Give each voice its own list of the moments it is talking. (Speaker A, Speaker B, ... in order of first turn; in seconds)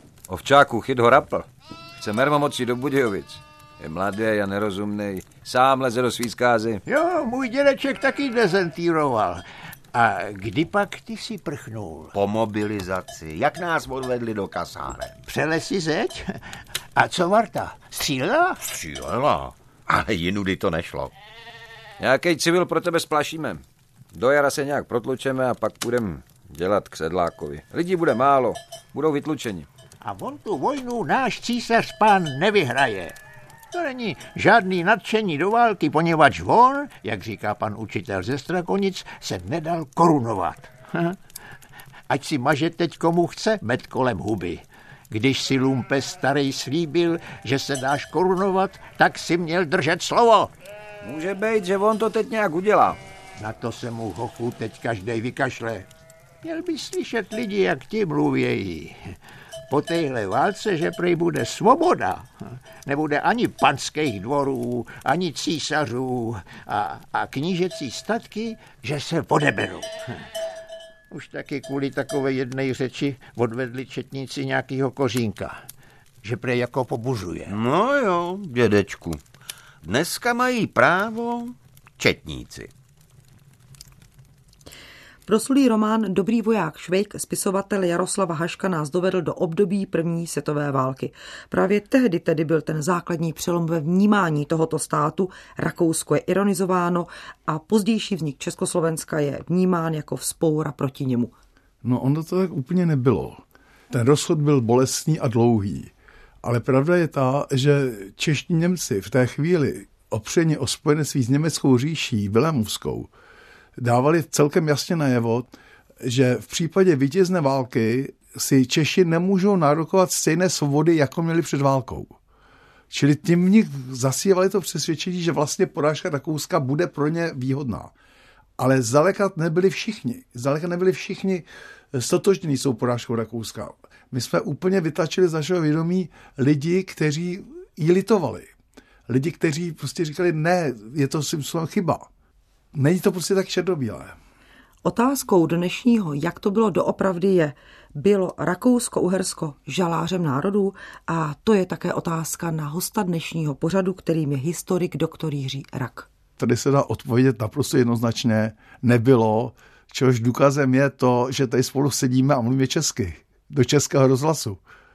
Speaker A: 0.3-1.4, 2.0-6.8, 22.0-29.7, 51.0-53.0
Speaker B: 6.8-9.4, 9.9-12.1, 15.2-16.4, 16.9-18.6, 30.0-33.1, 33.7-41.2, 42.1-50.5, 53.4-55.9, 56.4-59.1, 59.7-70.2, 71.1-75.6, 76.2-77.5
Speaker C: 12.1-15.2, 18.6-21.1, 77.5-79.2, 79.8-82.7
Speaker D: 85.3-101.3, 144.8-156.1
Speaker E: 101.8-113.1, 113.8-122.2, 122.9-127.9, 128.6-138.5, 139.1-142.1, 142.7-144.2, 156.4-164.6